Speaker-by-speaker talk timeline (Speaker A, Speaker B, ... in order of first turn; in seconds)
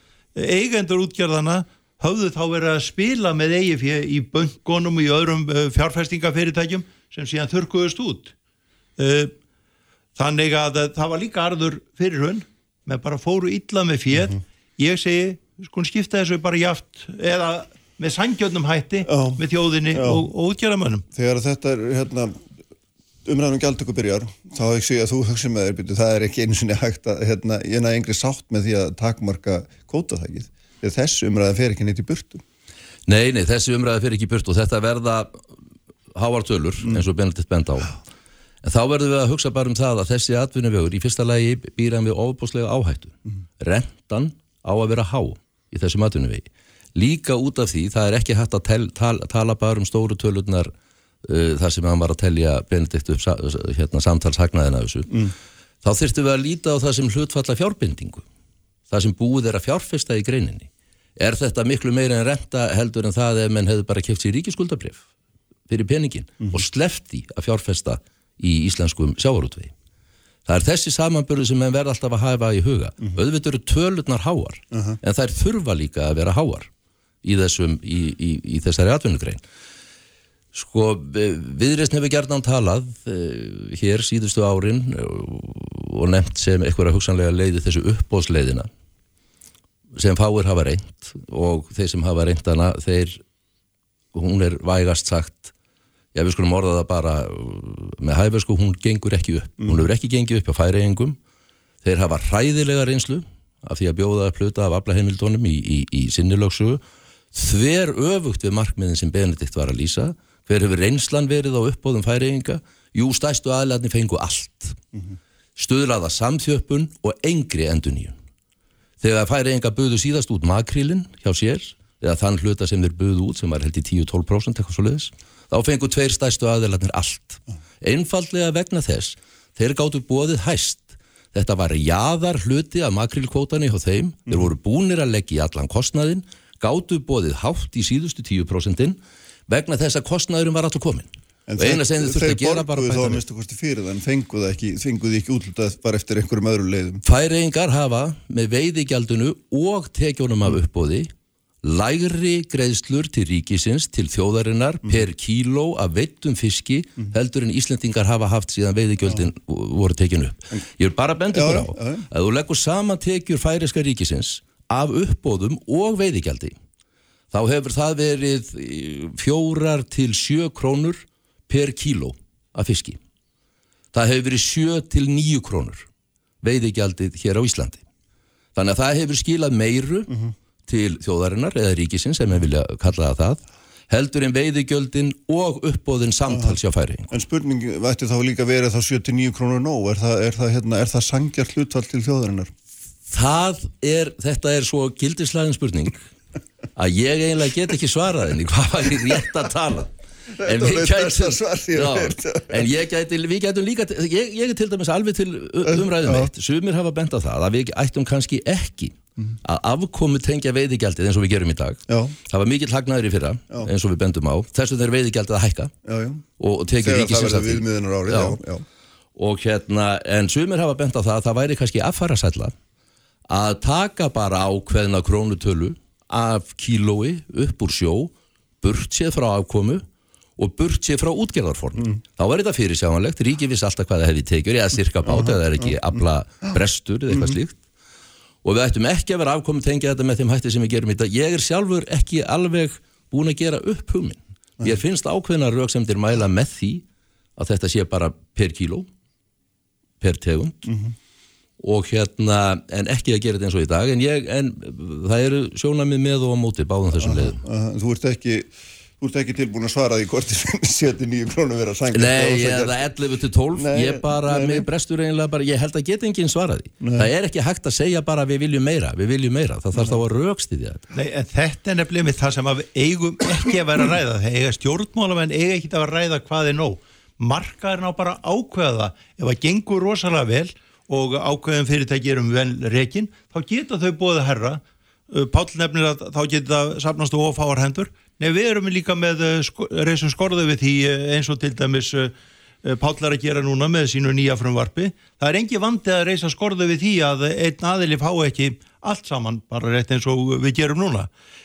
Speaker A: 0.3-8.3, 9.0-9.3, 10.2-21.0, 270.9-301.1
Speaker B: 19.1-20.2, 21.1-22.4, 23.2-32.4, 74.7-75.0, 141.5-147.0, 161.3-162.1, 186.3-186.6, 187.1-192.5, 200.4-202.7, 205.7-206.3, 211.9-212.1, 215.8-216.2, 216.8-218.6, 235.1-235.7, 237.1-237.3, 250.7-250.9, 256.9-262.8, 263.5-264.7, 266.8-267.1
Speaker C: 33.1-35.4, 36.1-38.0, 38.6-50.7, 51.2-55.3, 55.8-58.2, 58.9-65.0, 65.7-69.7, 70.5-76.7, 77.2-79.4, 80.5-88.7, 90.0-93.2, 94.1-95.5, 96.1-101.2, 101.8-106.8, 107.3-114.8, 115.5-118.1, 119.0-143.2, 147.0-151.1, 151.6-166.6, 167.3-173.0, 173.9-175.8, 176.4-177.8, 178.5-180.1, 180.7-187.1, 193.1-196.1, 196.8-215.7, 216.4-218.4, 219.2-222.5, 223.3-229.8, 230.4-237.6, 238.4-246.8, 247.4-248.9, 250.0-250.7, 251.6-257.4, 261.9-270.8